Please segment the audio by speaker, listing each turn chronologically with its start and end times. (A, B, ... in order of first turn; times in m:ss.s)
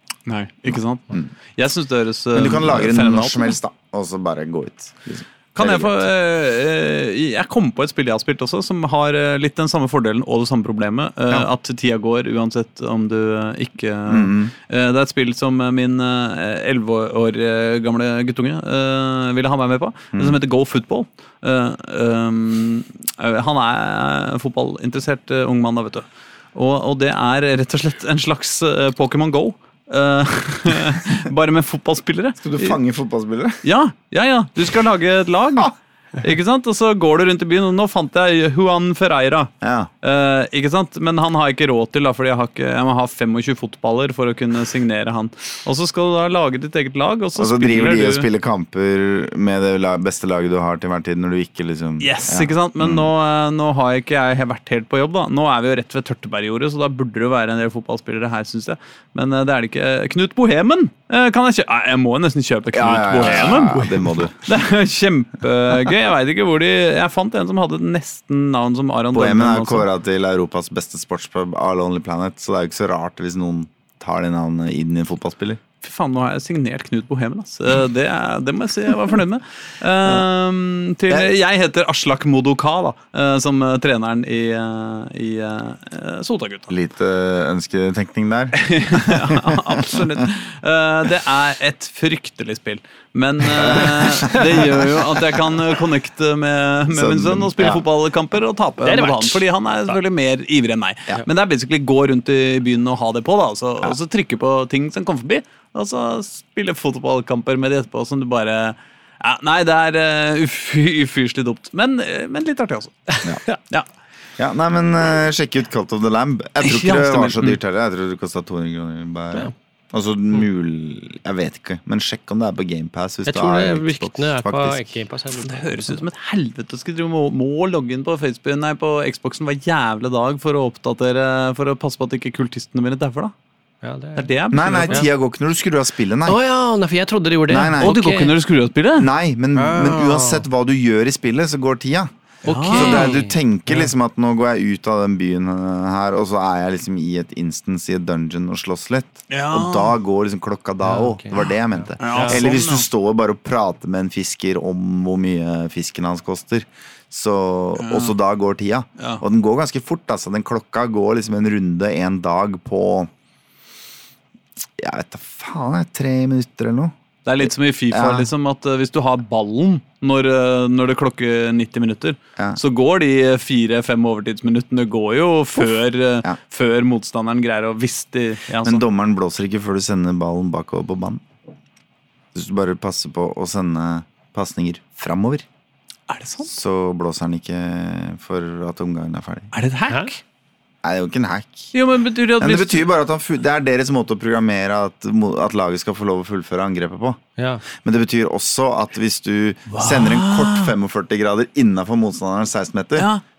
0:00.3-0:03.6 A
0:02.3-0:06.1 B
0:05.5-0:32.8 A
0:14.1-0:14.5 B
0:20.1-0:20.4 B
0:32.4-0:33.6 B
0:33.6-0:48.3 A
0:39.6-0:39.9 B
0:47.4-0:53.1 B
0:52.0-1:09.9 A
1:02.7-1:04.3 B
1:09.1-1:15.6 B
1:15.8-1:26.7 A
1:26.7-1:30.2 B
1:28.5-1:53.2 A
1:33.5-1:35.1 B
1:36.9-1:37.8 B
1:38.8-1:39.4 C
1:54.4-2:04.8 B
1:56.6-1:57.6 A
2:03.3-2:06.0 C
2:05.3-2:13.3 A
2:13.8-2:14.3 C
2:14.2-2:15.1 A
2:14.5-2:16.4 B
2:16.2-2:18.3 C
2:17.5-2:18.0 B
2:17.8-2:19.1 A
2:19.0-2:22.1 B
2:19.6-2:20.4 C
2:22.4-2:23.9 C
2:22.4-2:23.1 A
2:22.7-2:43.1 B
2:29.3-2:29.9 A
2:30.9-2:31.2 C
2:32.0-2:32.8 A
2:32.0-2:32.4 C
2:37.8-2:38.1 A
2:44.8-2:48.3 B
2:47.2-2:58.8 A
2:58.6-3:01.2 B
3:02.3-3:05.4 B
3:06.1-3:06.5 A
3:06.5-3:09.5 B
3:09.5-3:10.2 A
3:10.8-3:11.7 B
3:11.7-3:12.9 A
3:12.4-3:23.1 B
3:17.4-3:17.6 C
3:19.7-3:20.7 A
3:23.0-3:23.2 A